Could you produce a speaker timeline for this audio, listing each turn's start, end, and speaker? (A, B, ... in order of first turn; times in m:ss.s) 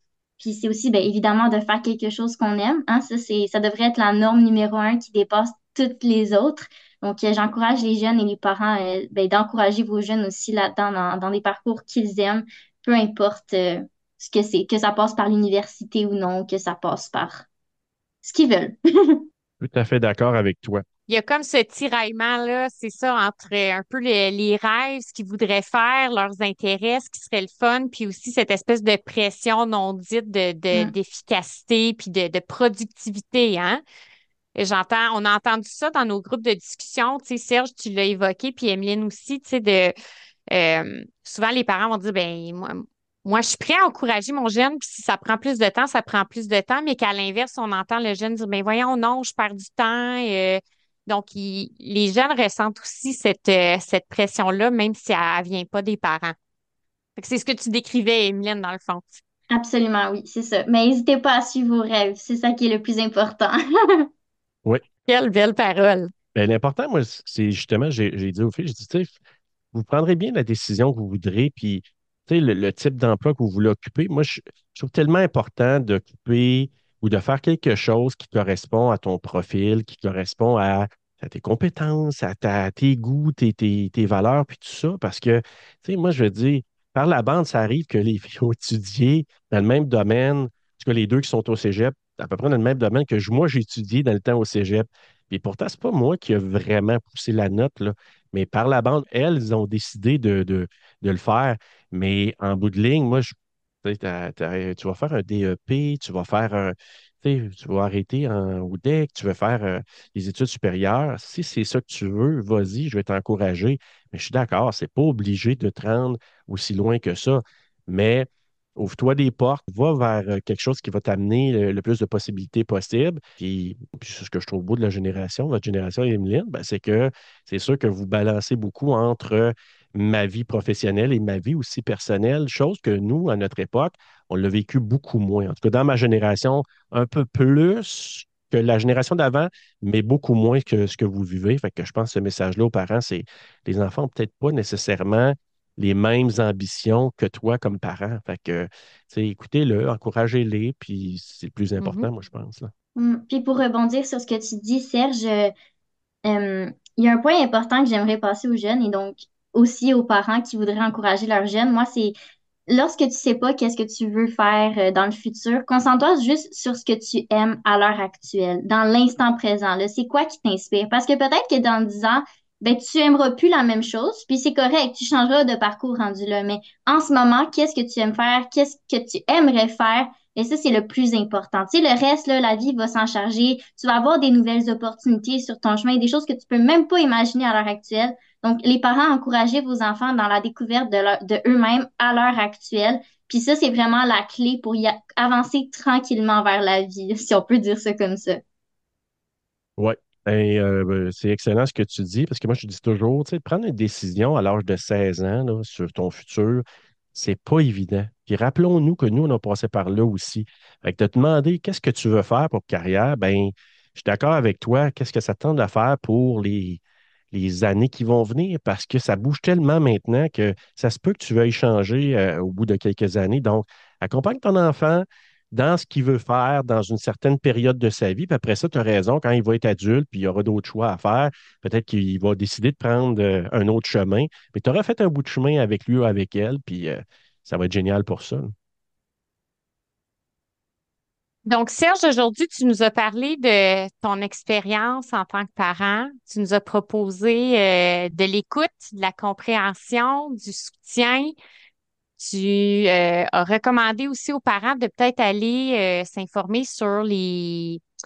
0:00.4-0:17.5 A
0:18.2-0:19.2 A
0:19.6-0:20.8 B
0:21.1-0:33.8 C
0:34.6-0:39.9 C
0:40.5-0:56.4 C
0:57.2-0:59.2 C
0:59.5-1:04.1 A
1:05.1-1:06.1 C
1:06.4-1:09.1 B
1:09.7-1:43.3 B
1:43.8-2:32.7 B
2:31.8-2:32.1 C
2:33.0-2:35.5 A
2:36.2-2:42.2 A
2:42.7-3:18.4 A
3:19.8-3:26.6 B
3:27.1-3:36.8 B
3:37.3-3:58.5 B
4:01.5-4:11.3 C
4:12.2-4:17.8 C